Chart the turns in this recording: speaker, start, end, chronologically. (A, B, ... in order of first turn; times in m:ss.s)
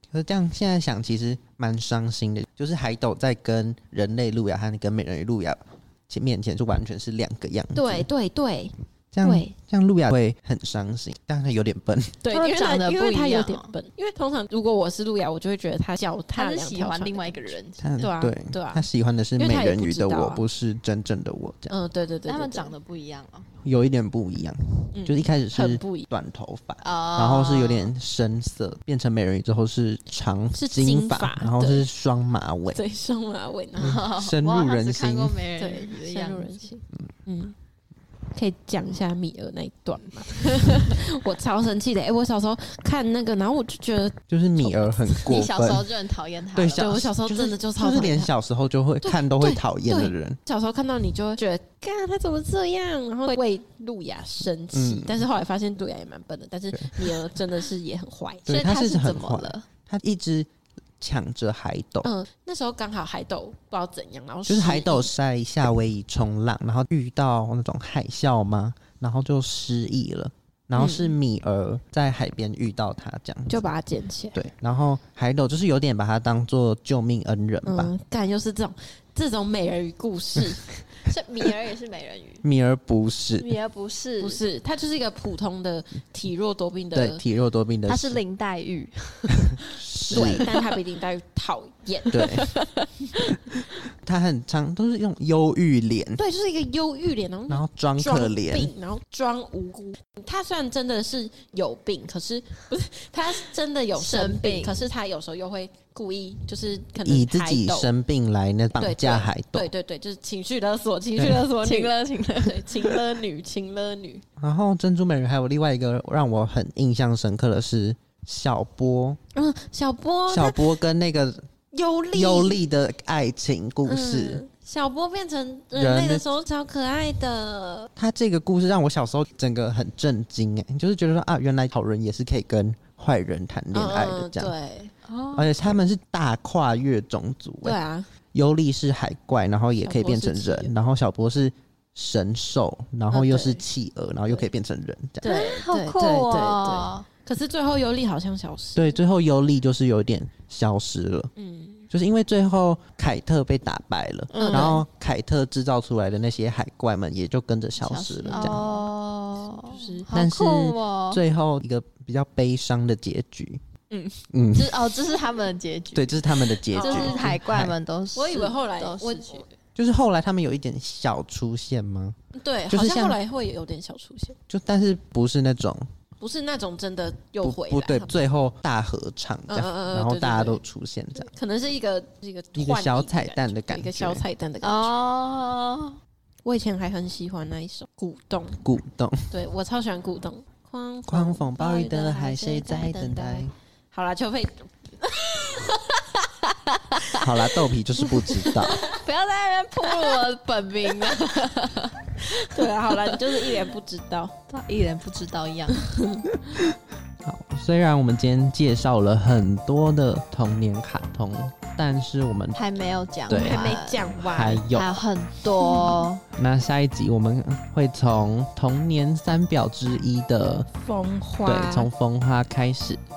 0:00.1-0:08.1 A
0:07.7-0:09.5 B
0:09.1-0:12.2 A
0:12.2-0:20.4 B
0:12.3-0:13.7 C
0:16.3-0:18.1 C
0:17.8-0:21.7 A
0:21.7-0:22.7 B
0:22.3-0:23.5 C
0:23.6-0:32.8 A
0:24.9-0:26.1 B
0:26.8-0:27.9 C
0:30.5-0:31.8 B
0:32.7-0:34.0 B
0:33.8-0:36.6 C
0:33.8-0:35.4 A
0:35.6-0:37.5 B
0:38.3-0:45.4 B
0:44.3-0:45.9 A
0:45.2-0:47.0 C
0:46.5-0:50.4 A
0:46.8-0:48.3 B
0:49.0-0:58.5 B
0:54.7-0:55.3 A
0:56.7-0:57.2 A
0:58.4-1:00.5 A
0:58.5-0:59.6 C
1:01.0-1:02.1 A
1:02.0-1:05.1 B
1:04.4-1:13.7 A
1:10.8-1:11.2 B
1:13.5-1:14.4 B
1:14.3-1:17.9 A
1:17.6-1:20.6 B
1:21.0-1:22.4 C
1:22.4-1:23.5 A
1:23.4-1:24.4 C
1:24.2-1:27.2 B
1:26.9-1:28.2 A
1:27.9-1:30.6 C
1:29.5-1:30.5 A
1:30.1-1:32.2 B
1:32.1-1:33.4 C
1:32.1-1:32.5 A
1:33.9-1:36.2 A
1:36.2-1:47.9 B
1:37.5-1:38.7 A
1:43.9-1:44.8 C
1:47.0-1:49.7 A
1:48.8-1:54.2 B
1:51.2-1:51.5 A
1:51.6-1:53.0 C
1:54.4-1:59.2 A
1:59.3-2:00.8 B
2:00.3-2:01.5 A
2:01.7-2:02.6 B
2:02.1-2:04.4 A
2:03.8-2:07.9 B
2:05.8-2:06.2 A
2:08.0-2:14.5 A
2:13.7-2:14.9 B
2:15.0-2:15.5 C
2:15.3-2:17.8 A
2:17.6-2:18.1 B
2:18.3-2:25.4 A
2:19.8-2:20.7 B
2:23.1-2:23.6 B
2:25.2-2:29.0 B
2:25.2-2:27.1 C
2:28.7-2:31.3 A
2:31.4-2:31.9 B
2:31.9-2:38.6 A
2:34.3-2:34.8 B
2:34.3-2:34.8 C
2:37.8-2:41.2 C
2:38.3-2:38.8 B
2:39.7-2:40.1 B
2:40.1-2:43.6 A
2:43.9-2:44.2 B
2:44.3-2:44.9 A
2:44.5-2:49.5 C
2:45.9-2:47.7 A
2:46.7-2:47.3 B
2:48.1-2:49.4 B
2:49.8-2:52.2 A
2:52.3-2:54.4 B
2:52.7-2:53.2 A
2:54.5-2:55.9 A
2:56.2-2:58.2 B
2:57.4-3:01.3 A
2:59.5-3:00.6 B
3:01.2-3:04.9 B
3:02.5-3:04.2 A
3:04.6-3:06.0 C
3:06.4-3:08.6 B
3:08.6-3:09.3 A
3:09.3-3:15.8 B
3:11.1-3:13.5 A
3:15.3-3:17.5 C
3:17.2-3:18.8 A
3:18.2-3:23.6 C
3:18.5-3:18.9 B
3:22.2-3:24.3 B
3:24.5-3:25.8 C
3:25.8-3:26.2 B
3:27.2-3:35.0 A
3:32.6-3:34.1 C
3:33.3-3:34.6 B
3:34.7-3:36.2 C
3:36.3-3:40.7 A
3:40.7-3:41.9 B
3:41.4-3:43.0 A